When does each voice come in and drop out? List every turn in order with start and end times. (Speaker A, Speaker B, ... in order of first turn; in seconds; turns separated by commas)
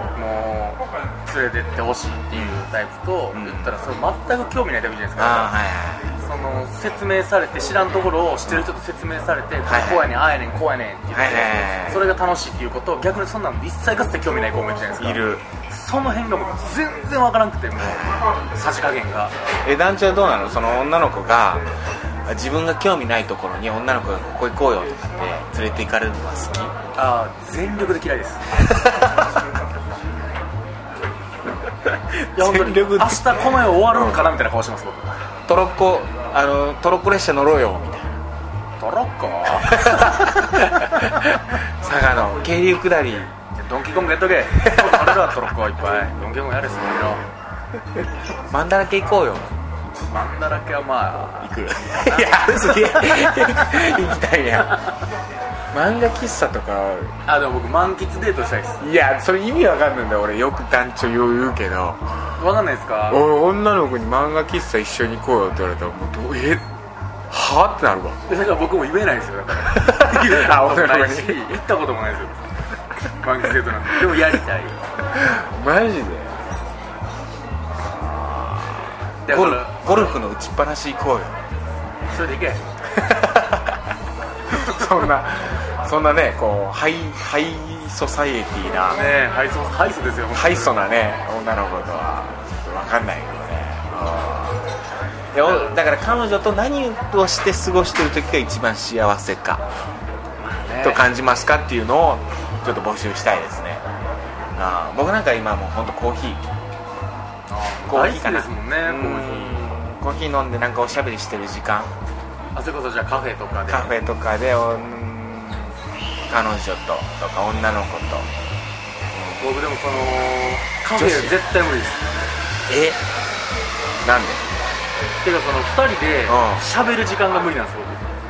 Speaker A: 0.1-5.5, Speaker B: 2.3-2.6, Speaker B: 3.3-3.8, Speaker B: 5.2-6.1, Speaker A: 6.2-19.3, Speaker B: 9.7-10.2, Speaker B: 11.1-12.1, Speaker B: 15.0-15.5, Speaker B: 17.8-18.3, Speaker B: 19.6-21.6, Speaker B: 22.3-26.7, Speaker A: 27.0-28.4, Speaker B: 28.7-29.1, Speaker B: 31.9-34.3, Speaker A: 32.4-35.1, Speaker B: 35.5-38.2, Speaker A: 38.8-41.2, Speaker B: 39.5-43.4, Speaker A: 43.5-47.2, Speaker B: 44.6-45.4, Speaker B: 48.5-49.5, Speaker A: 50.1-53.9, Speaker B: 51.4-54.9, Speaker B: 55.7-57.1, Speaker A: 57.3-58.9, Speaker B: 58.8-62.4, Speaker A: 62.4-63.2, Speaker B: 63.1-66.7, Speaker B: 67.3-68.2, Speaker A: 68.3-72.4, Speaker B: 69.7-71.5, Speaker A: 73.2-74.8, Speaker B: 75.1-76.4, Speaker B: 78.0-81.4, Speaker A: 79.2-80.2, Speaker A: 82.1-82.7, Speaker B: 82.9-83.8, Speaker B: 84.5-89.0, Speaker A: 88.8-90.9, Speaker B: 90.3-94.7, Speaker B: 95.3-99.7, Speaker A: 95.4-95.8, Speaker A: 100.4-101.1, Speaker B: 100.8-103.8, Speaker B: 104.5-106.4, Speaker A: 107.5-109.8, Speaker B: 107.9-111.9, Speaker A: 112.5-113.9, Speaker B: 113.7-115.7, Speaker B: 116.3-118.3, Speaker B: 119.1-119.4, Speaker A: 119.4-122.0, Speaker B: 121.0-121.4, Speaker B: 122.7-123.0, Speaker B: 124.0-124.5, Speaker A: 125.2-128.1, Speaker B: 126.3-126.7